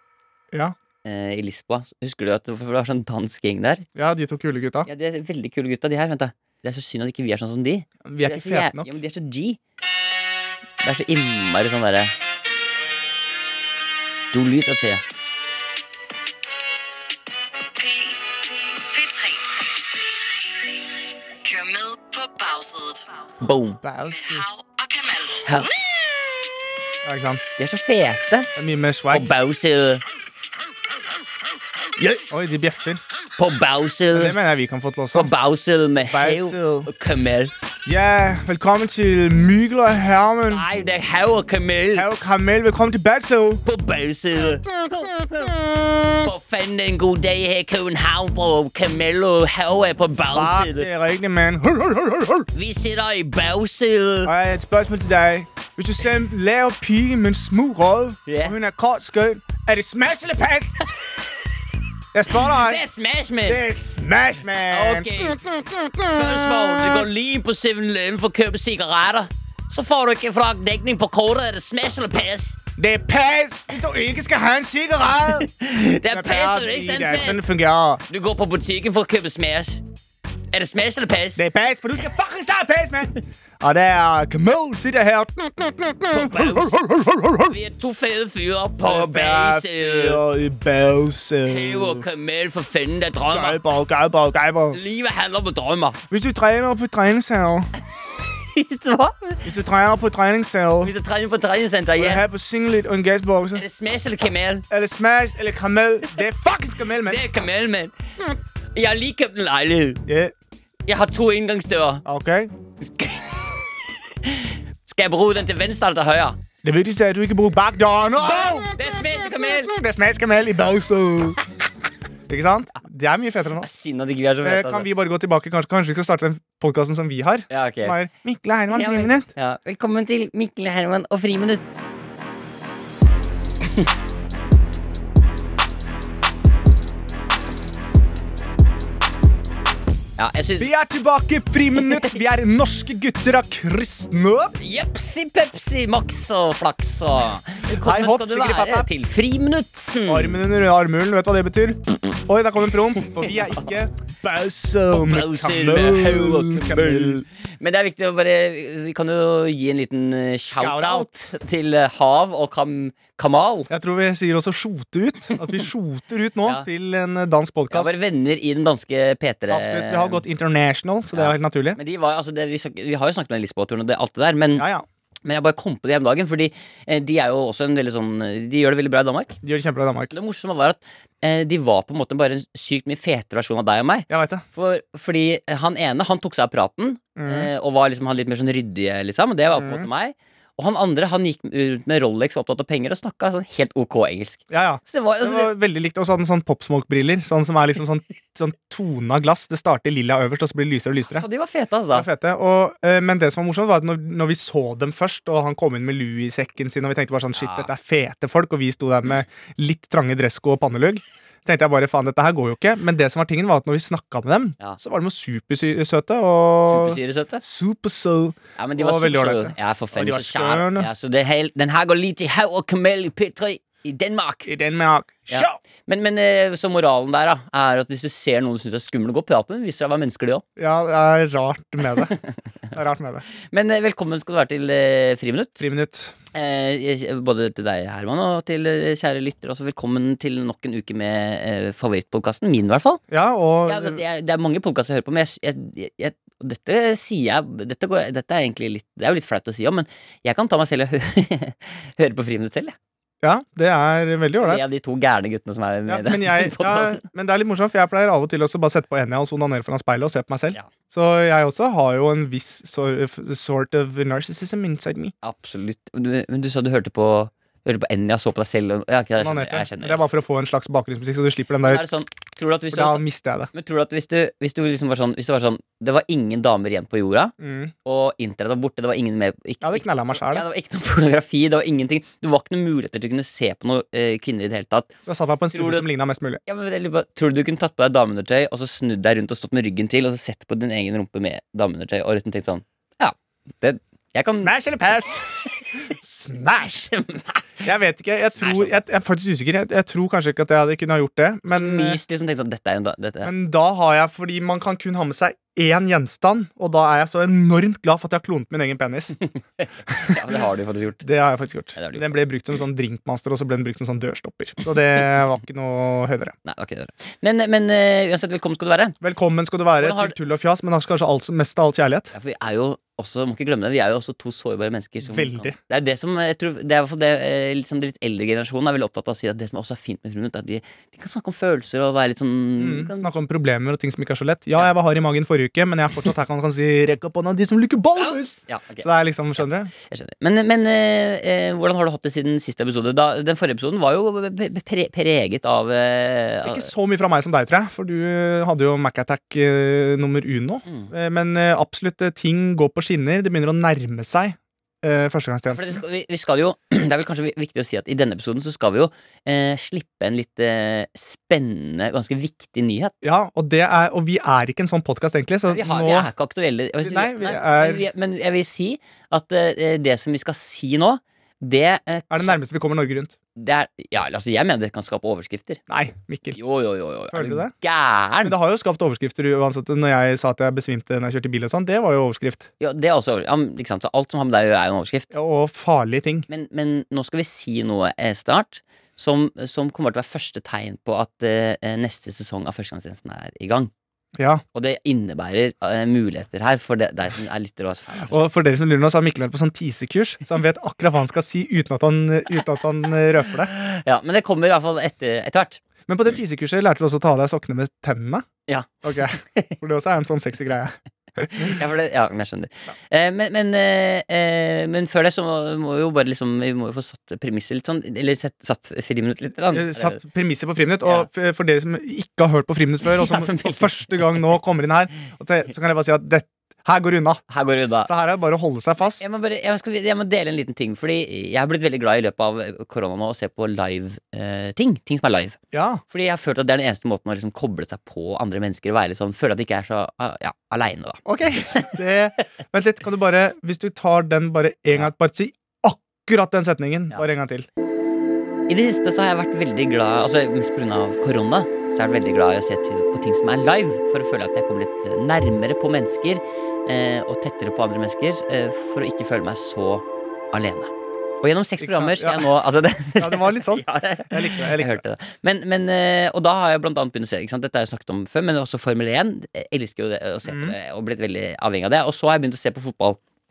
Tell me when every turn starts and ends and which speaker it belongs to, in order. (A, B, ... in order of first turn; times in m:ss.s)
0:01.0-0:03.9 A
0:04.0-0:04.9 B
0:04.8-0:09.6 A
0:08.0-0:08.9 B
0:10.8-0:12.1 A
0:14.3-0:15.0 A
0:17.8-0:19.6 C
0:21.4-0:23.3 C
0:23.4-0:23.8 A
0:23.8-0:24.4 B
0:24.1-0:25.6 C
0:27.0-0:27.4 B
0:27.6-0:28.5 A
0:28.6-0:29.3 B
0:29.1-0:30.0 A
0:32.0-0:32.2 A
0:32.3-0:33.0 B
0:33.4-0:34.4 A
0:34.1-0:35.3 B
0:35.1-0:37.5 A
0:36.0-0:36.9 B
0:37.8-0:40.6 B
0:40.5-0:42.1 A
0:41.9-0:43.6 B
0:43.6-0:44.6 A
0:44.9-0:46.2 B
0:46.2-0:50.9 A
0:50.3-0:52.5 B
0:52.5-0:54.3 A
0:54.2-1:00.8 B
0:58.3-0:58.6 A
1:02.1-1:02.8 B
1:02.4-1:03.6 A
1:03.4-1:07.0 B
1:04.7-1:05.4 A
1:06.1-1:12.6 A
1:12.8-1:15.5 B
1:15.4-1:17.4 A
1:16.1-1:18.0 B
1:18.1-1:19.8 A
1:20.5-1:21.4 A
1:21.4-1:27.5 B
1:26.1-1:26.8 A
1:27.5-1:30.2 A
1:28.8-1:32.0 B
1:31.4-1:33.6 A
1:33.3-1:34.8 B
1:34.7-1:36.0 A
1:36.1-1:37.7 B
1:38.4-1:39.4 A
1:39.4-1:40.9 B
1:40.8-1:42.2 A
1:42.0-1:43.6 B
1:43.5-1:44.6 A
1:44.7-1:47.2 B
1:47.0-1:47.9 A
1:48.7-1:50.0 A
1:50.1-1:50.3 B
1:50.9-1:52.0 A
1:52.0-1:52.5 B
1:53.0-1:53.6 A
1:54.2-1:56.4 A
1:56.6-2:01.4 B
1:58.2-1:59.7 A
2:02.3-2:03.7 B
2:03.6-2:04.9 A
2:04.4-2:09.3 B
2:07.5-2:08.0 A
2:08.7-2:11.8 A
2:20.2-2:20.7 A
2:20.6-2:24.5 B
2:24.6-2:30.4 A
2:27.8-2:28.9 B
2:30.1-2:37.2 B
2:33.2-2:33.6 A
2:34.9-2:43.7 A
2:40.6-2:41.1 B
2:43.7-2:47.9 B
2:47.7-2:50.2 A
2:49.5-2:51.8 B
2:51.1-2:54.6 A
2:54.5-2:54.8 B
2:55.2-2:59.4 A
2:59.4-3:00.1 B
3:00.1-3:15.5 A
3:04.1-3:04.4 B
3:07.2-3:07.5 B
3:09.5-3:09.9 B
3:14.5-3:21.2 B
3:21.1-3:22.1 A
3:21.9-3:40.9 B
3:27.4-3:27.7 A
3:36.6-3:37.4 A
3:38.6-3:44.5 A
3:44.4-3:45.6 B
3:45.3-3:50.4 A
3:50.6-3:52.1 B
3:52.7-3:53.2 B
3:53.5-3:55.6 A
3:55.6-3:56.1 B
3:56.3-4:03.0 A
4:03.1-4:04.0 B
4:03.6-4:12.8 A
4:13.2-4:14.6 B
4:14.4-4:17.0 A
4:15.9-4:25.1 B
4:25.2-4:30.0 A
4:29.2-4:31.8 B
4:31.6-4:45.0 A
4:32.7-4:33.5 B
4:37.4-4:37.7 B
4:39.6-4:40.4 B
4:45.1-4:46.4 B
4:45.5-4:45.9 A
4:46.4-4:54.5 A
4:54.2-4:56.8 B
4:56.6-4:57.5 A
4:57.6-5:02.0 B
4:58.3-4:58.8 A
5:01.5-5:03.3 A
5:03.2-5:09.2 B
5:09.3-5:11.1 A
5:11.0-5:16.3 B
5:11.8-5:12.2 A
5:16.4-5:19.0 A
5:19.0-5:22.1 B
5:19.8-5:20.2 A
5:22.1-5:33.1 A
5:25.0-5:25.6 B
5:32.6-5:39.7 B
5:38.0-5:46.7 A
5:46.4-5:55.8 B
5:50.6-5:50.9 A
5:55.5-6:03.0 A
6:03.0-6:06.1 B
6:05.5-6:12.4 A
6:06.8-6:07.8 B
6:12.1-6:13.2 B
6:13.4-6:15.6 A
6:15.7-6:16.4 B
6:16.3-6:18.3 A
6:17.1-6:17.5 B
6:18.2-6:22.5 B
6:22.6-6:25.1 A
6:25.1-6:26.3 B
6:26.3-6:33.7 A
6:34.2-6:34.4 B
6:34.5-6:38.2 A
6:38.0-6:43.5 B
6:43.5-6:45.6 A
6:45.9-6:48.2 B
6:48.5-6:49.6 A
6:48.8-6:51.6 B
6:51.4-7:00.0 A
6:59.5-7:07.2 B
7:02.9-7:04.2 A
7:07.3-7:07.9 A
7:07.8-7:09.0 B
7:08.8-7:15.4 A
7:15.5-7:15.8 B
7:15.9-7:21.8 A
7:21.0-7:27.5 B
7:28.5-7:53.0 A
7:41.6-7:42.3 B
7:43.0-7:44.8 B
7:50.2-7:50.6 B